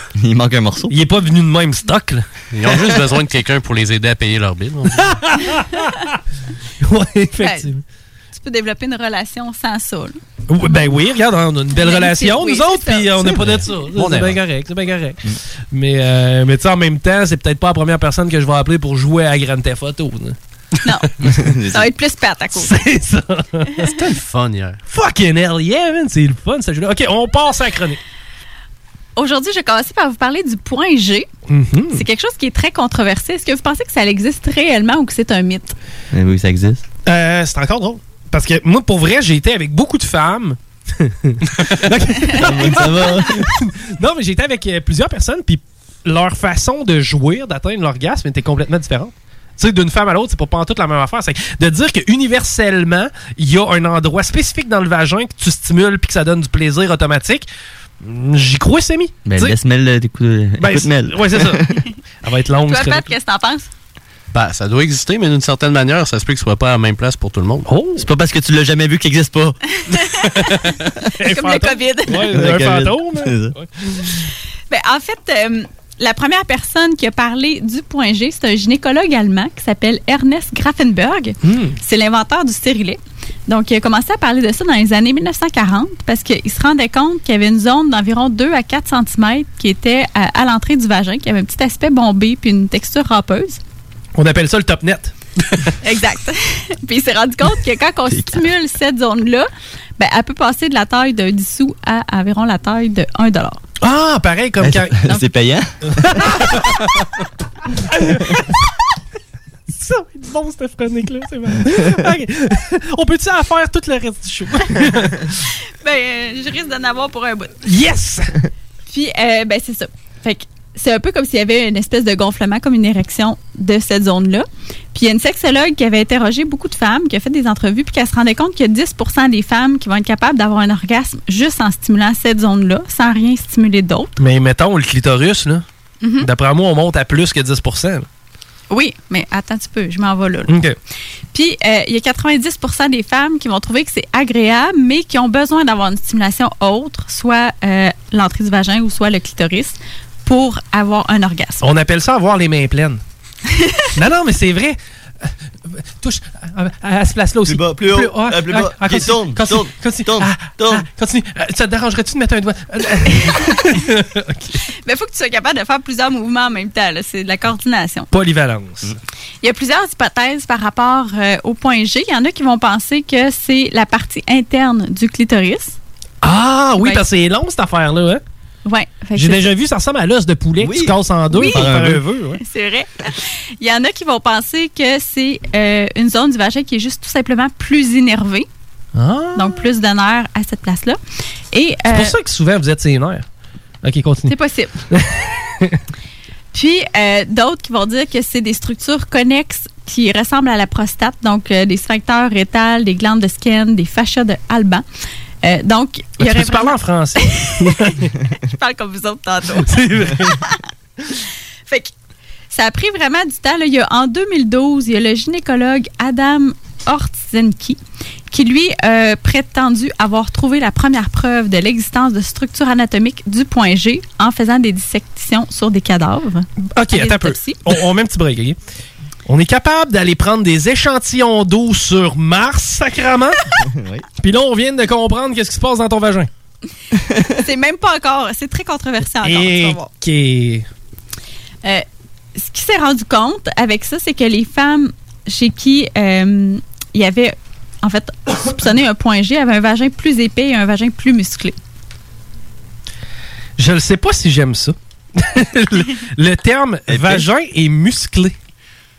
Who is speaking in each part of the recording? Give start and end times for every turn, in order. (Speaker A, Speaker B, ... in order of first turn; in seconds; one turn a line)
Speaker A: 0.1-0.9
Speaker B: 0.9-2.2
Speaker C: 2.5-5.2
Speaker B: 5.0-6.0
Speaker B: 6.8-7.8
Speaker D: 7.4-7.7
Speaker D: 8.3-11.0
Speaker B: 10.5-15.2
Speaker D: 11.7-13.3
Speaker C: 13.4-14.4
Speaker B: 15.7-20.4
Speaker D: 20.8-21.1
Speaker A: 21.2-21.9
Speaker D: 21.7-22.7
Speaker B: 22.5-23.9
Speaker C: 23.8-24.8
Speaker B: 24.9-28.0
Speaker D: 29.1-31.3
Speaker B: 31.5-32.0
Speaker D: 31.9-35.8
Speaker A: 36.1-36.8
Speaker B: 37.0-57.5
Speaker D: 42.2-42.9
Speaker A: 42.4-43.5
Speaker B: 58.0-59.5
Speaker A: 59.2-61.8
Speaker B: 60.6-61.6
Speaker B: 62.2-63.1
Speaker D: 62.7-63.7
Speaker C: 64.3-67.7
Speaker B: 67.7-68.1
Speaker A: 68.0-69.6
Speaker D: 69.9-70.5
Speaker B: 70.1-70.5
Speaker B: 71.2-74.2
Speaker D: 71.2-72.3
Speaker A: 72.3-73.5
Speaker D: 74.7-93.6
Speaker B: 81.4-81.8
Speaker B: 94.2-95.1
Speaker D: 95.8-103.6
Speaker A: 98.1-98.4
Speaker B: 103.8-105.0
Speaker A: 104.6-106.6
Speaker B: 106.0-106.8
Speaker B: 107.9-108.4
Speaker B: 109.7-115.3
Speaker D: 115.8-117.5
Speaker B: 117.6-118.3
Speaker D: 118.9-134.1
Speaker B: 134.2-135.6
Speaker D: 136.0-136.3
Speaker B: 136.2-138.1
Speaker D: 138.7-140.5
Speaker B: 140.5-140.8
Speaker D: 141.3-151.6
Speaker B: 151.6-153.0
Speaker B: 153.9-154.8
Speaker B: 156.0-164.6
Speaker A: 157.4-160.8
Speaker D: 164.8-168.1
Speaker B: 168.1-168.9
Speaker D: 169.4-175.8
Speaker B: 176.2-178.2
Speaker D: 176.8-177.1
Speaker D: 178.7-179.5
Speaker B: 179.2-182.4
Speaker A: 180.6-182.0
Speaker D: 181.3-181.7
Speaker D: 182.4-188.5
Speaker B: 188.9-189.7
Speaker D: 189.3-191.0
Speaker D: 191.5-192.1
Speaker B: 191.9-193.2
Speaker B: 193.8-194.3
Speaker D: 194.3-194.7
Speaker B: 194.9-195.8
Speaker D: 196.5-204.8
Speaker D: 205.4-207.9
Speaker B: 206.2-208.1
Speaker D: 208.4-210.6
Speaker B: 209.6-210.4
Speaker D: 211.7-211.9
Speaker D: 212.5-227.7
Speaker B: 226.8-228.6
Speaker B: 229.3-233.4
Speaker A: 233.6-234.0
Speaker B: 234.2-236.3
Speaker D: 237.4-239.9
Speaker B: 239.2-240.7
Speaker D: 241.6-251.6
Speaker B: 253.6-258.3
Speaker A: 256.9-257.3